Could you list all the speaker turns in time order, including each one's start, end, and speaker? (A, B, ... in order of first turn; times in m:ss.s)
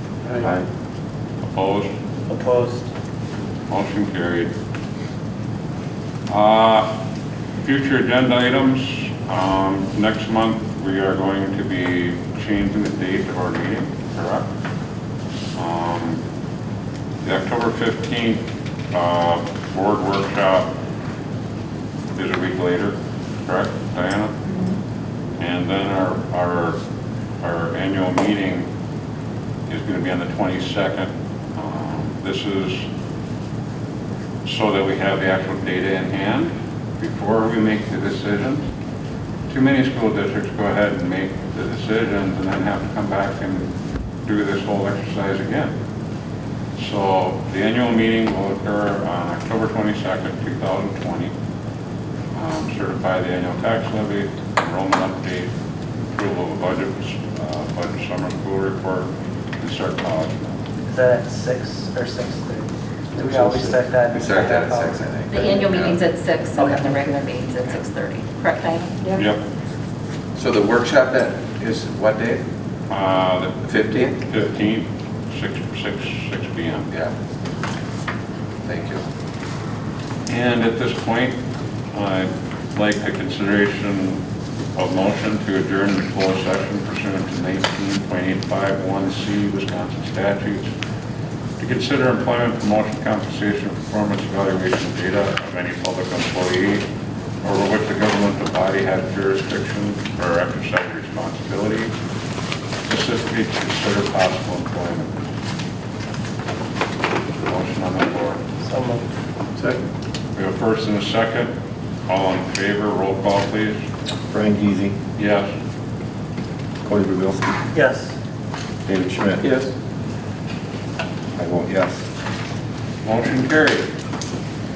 0:00.3-0:00.6 A
0:01.4-0:01.9 B
0:02.3-0:02.9 A
0:03.7-0:04.5 B
0:06.3-0:06.9 B
0:07.6-0:14.5 B
0:15.6-0:16.2 B
0:17.2-0:20.7 B
0:22.1-0:24.4 B
0:25.4-0:26.8 B
0:27.4-0:28.7 B
0:29.7-0:32.9 B
0:34.4-0:38.7 B
0:39.5-0:43.7 B
0:44.2-0:45.7 B
0:46.8-0:51.3 B
0:52.3-0:55.5 B
0:56.1-1:00.6 B
1:00.8-1:05.6 A
1:03.5-1:05.4 C
1:05.3-1:09.2 D
1:05.6-1:06.0 B
1:06.6-1:07.2 A
1:09.1-1:09.4 B
1:10.3-1:12.4 C
1:12.9-1:13.6 B
1:13.6-1:14.2 C
1:14.2-1:16.9 B
1:18.6-1:19.0 C
1:20.3-1:24.2 B
1:24.8-1:30.7 B
1:31.6-1:36.9 B
1:37.4-1:41.9 B
1:42.8-1:45.2 B
1:47.4-1:48.4 B
1:48.6-1:49.1 A
1:50.3-1:51.5 B
1:52.1-1:53.8 B
1:54.3-1:55.0 E
1:55.2-1:55.5 B
1:56.8-1:57.6 E
1:57.7-1:58.2 A
1:58.8-1:59.4 E
2:01.4-2:02.0 E
2:03.0-2:03.9 B